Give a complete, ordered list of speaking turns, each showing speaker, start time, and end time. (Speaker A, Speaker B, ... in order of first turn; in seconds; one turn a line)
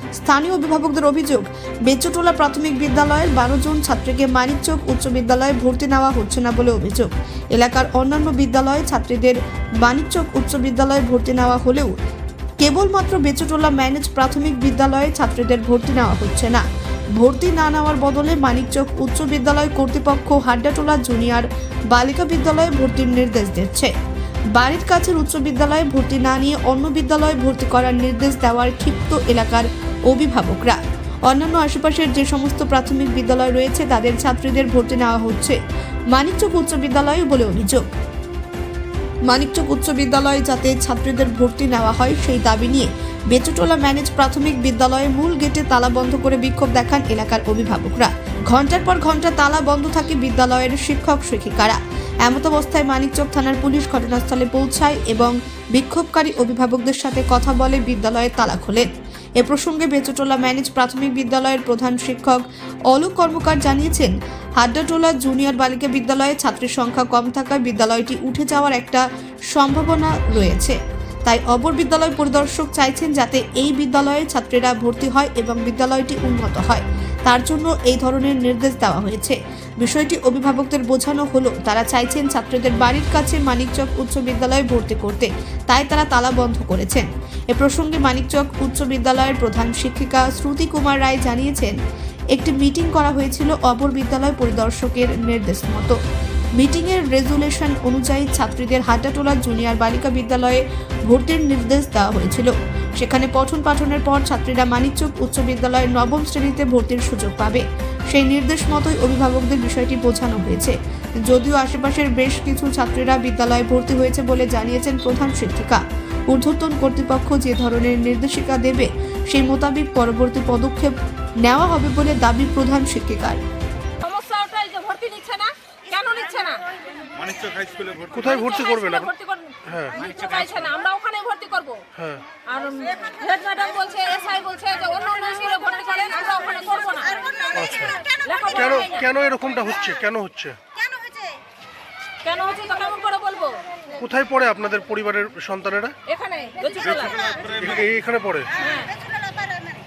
Speaker A: 0.2-11.9
Speaker A: 12.6-16.6
Speaker A: 17.2-23.9
Speaker A: 24.6-35.6
Speaker A: 36.1-37.9
Speaker A: 39.3-58.9
Speaker A: 59.4-91.8
Speaker A: 92.3-96.0
Speaker A: 96.6-123.4
Speaker B: 124.0-126.6
Speaker C: 127.2-128.7
Speaker D: 128.1-129.1
Speaker B: 128.5-131.8
Speaker D: 129.7-130.0
Speaker C: 130.0-130.7
Speaker D: 131.9-132.2
Speaker B: 132.5-139.1
Speaker D: 137.5-140.6
Speaker B: 142.2-143.6
Speaker D: 144.0-145.9
Speaker B: 146.1-147.2
Speaker C: 146.8-148.0
Speaker D: 147.6-148.5
Speaker B: 148.6-149.0